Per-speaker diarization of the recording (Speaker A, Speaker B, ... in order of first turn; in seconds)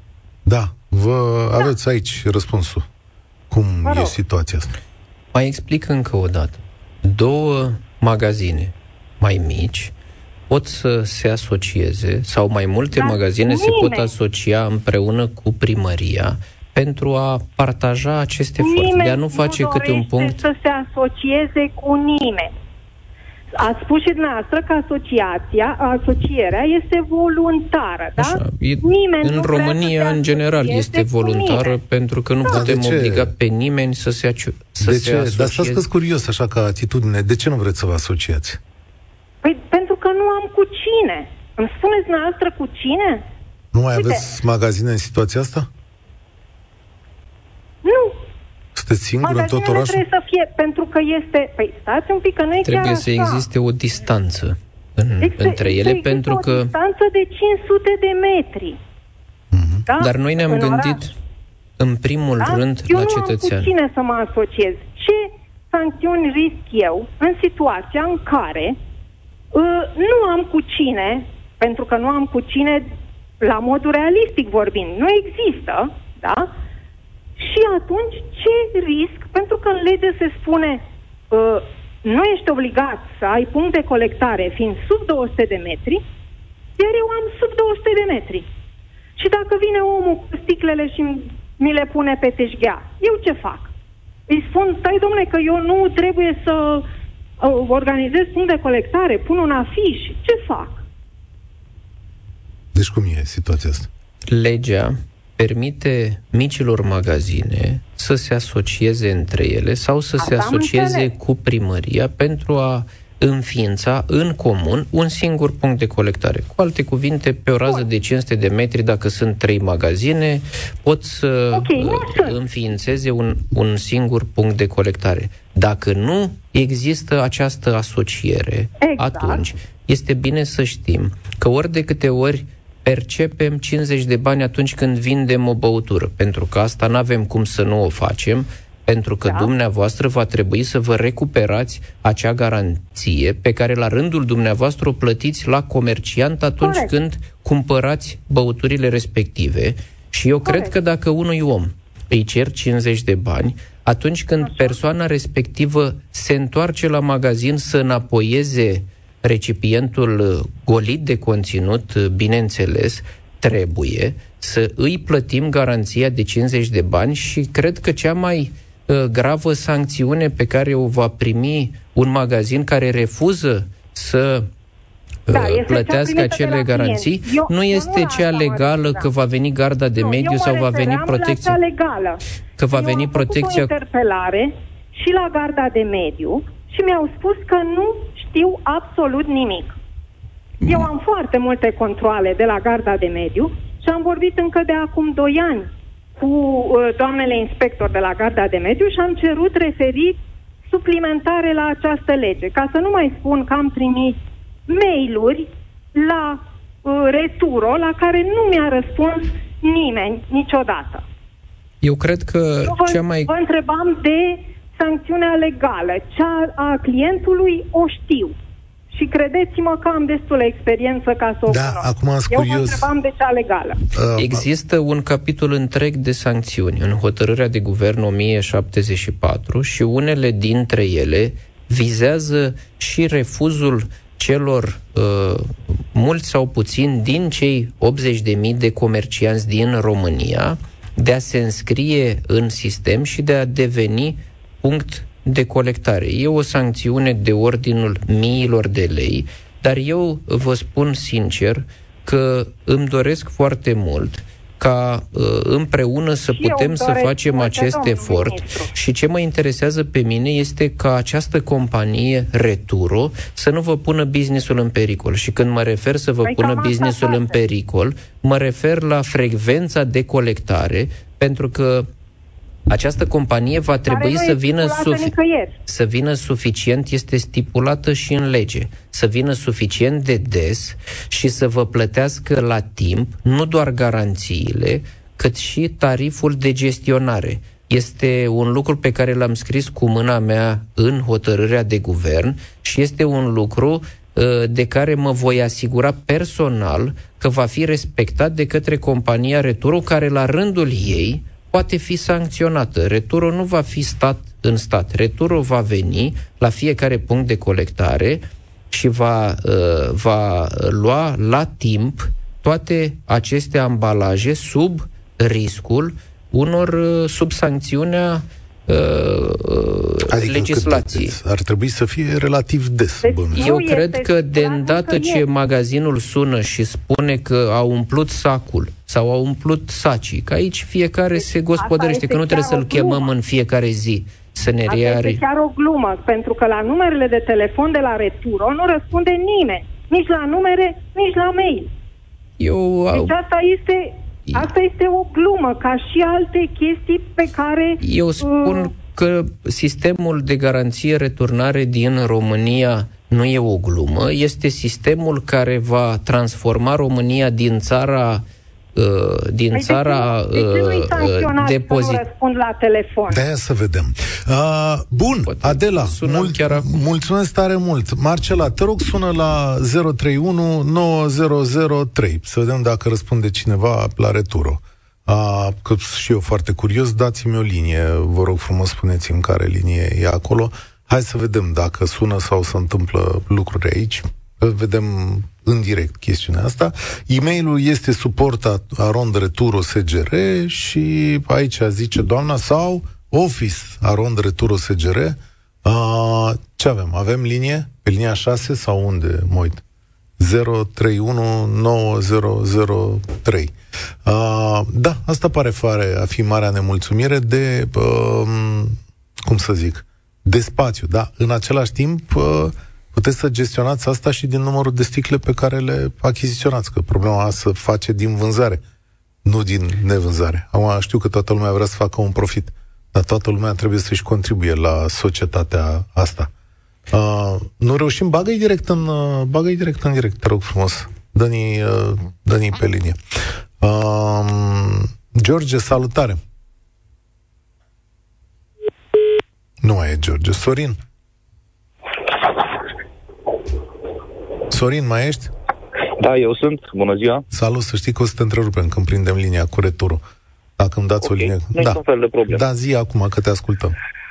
Speaker A: 0.5-2.9, 3.5-4.7, 32.5-33.3, 34.8-38.6, 43.7-45.7, 48.8-50.0, 59.5-59.8, 102.7-103.9, 221.5-222.9, 223.9-224.4, 320.1-323.5, 363.1-399.6, 400.2-403.5, 404.0-418.6, 419.2-426.3, 426.9-433.0, 433.6-436.2, 439.6-440.8, 444.5-445.3, 447.3-450.0, 450.6-453.8
Speaker B: 3.8-4.2, 12.9-14.1, 18.6-22.5, 23.5-31.8, 39.4-43.2, 43.9-44.3, 47.8-48.2, 49.2-53.4, 55.2-58.8, 59.9-61.0, 62.4-68.8, 69.5-72.8, 73.4-76.5, 77.4-86.0, 86.8-88.4, 89.2-93.7, 94.3-96.9, 97.4-100.8, 110.2-111.1, 121.5-122.4, 128.8-129.4, 146.6-146.9, 150.4-150.7, 154.4-154.8, 175.3-179.1, 180.0-189.7, 190.7-200.2, 200.7-211.0, 212.6-218.3, 218.9-223.8, 256.3-258.7, 266.2-267.4, 273.9-275.5, 323.0-325.2, 331.5-333.1, 334.7-341.7, 342.9-348.7, 359.5-363.2
Speaker C: 5.3-9.9, 10.5-20.4, 28.2-35.8, 52.6-56.7, 60.0-61.1, 61.8-63.7, 104.3-174.5, 175.3-181.6, 182.6-183.7, 190.6-190.9, 211.8-213.3, 224.2-271.9, 272.7-275.1, 275.6-321.1, 323.3-335.2, 342.4-343.1, 347.8-358.2, 358.8-362.0, 365.2-366.7
Speaker D: 446.0-447.2, 451.0-452.4